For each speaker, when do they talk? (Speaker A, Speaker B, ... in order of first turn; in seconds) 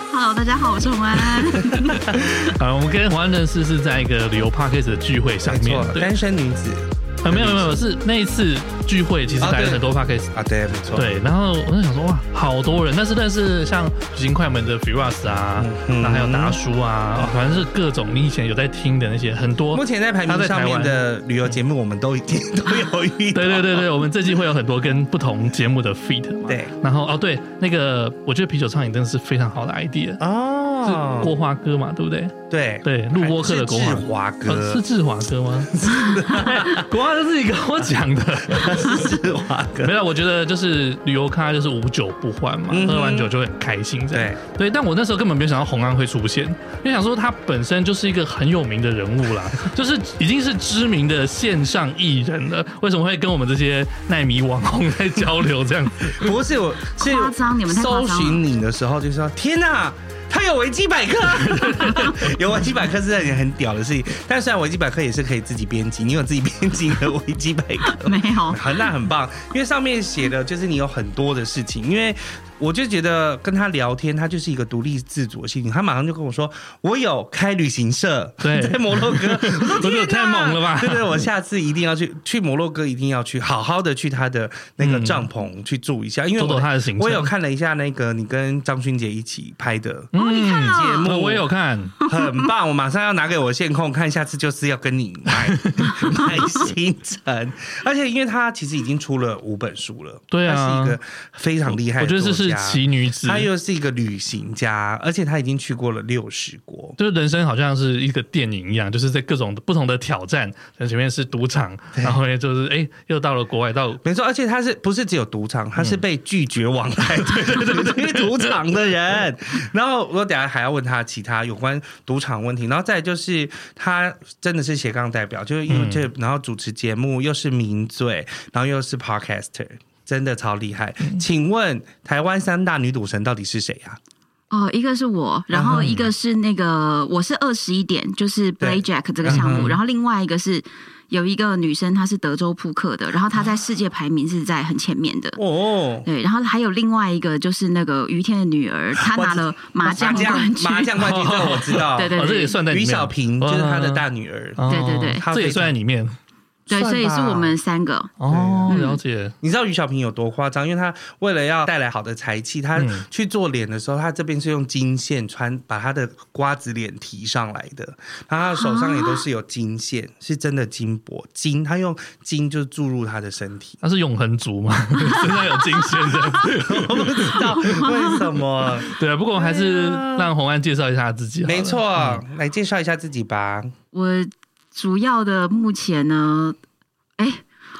Speaker A: 0.1-2.2, 57.0-58.4, 61.8-62.2, 67.9-68.6, 90.1-91.1, 92.0-92.4, 96.0-96.2, 134.5-145.4, 146.0-151.0, 151.7-152.6, 154.7-155.2, 156.7-158.1, 158.7-159.0, 168.6-169.2, 177.4-178.2, 183.9-186.6
Speaker B: 1.6-2.5, 5.4-7.8, 9.4-11.1, 15.6-16.6, 17.1-17.4, 19.7-23.9, 26.5-26.7, 30.2-31.3, 32.5-34.8, 35.8-36.9, 38.5-39.9, 42.7-43.3, 44.1-44.4, 56.1-91.5, 92.0-107.0, 114.0-134.0, 135.5-135.9, 138.6-139.7, 145.3-146.1, 149.0-155.7, 156.7-157.6, 158.3-158.8, 159.4-173.8, 176.1-180.3, 181.4-183.7
Speaker C: 1.7-6.1, 7.2-10.3, 10.9-21.5, 23.3-30.2, 30.8-39.1, 39.8-56.3, 61.3-62.1, 78.4-81.2, 84.8-85.2, 86.4-87.3, 90.1-91.9, 95.4-95.9, 100.3-101.0, 101.7-103.5, 107.0-114.0, 117.1-118.5, 125.7-126.1, 135.7-136.1, 139.2-139.8, 151.0-154.1, 154.6-156.2, 158.2-159.3, 162.8-163.0, 173.8-178.2, 178.8-182.2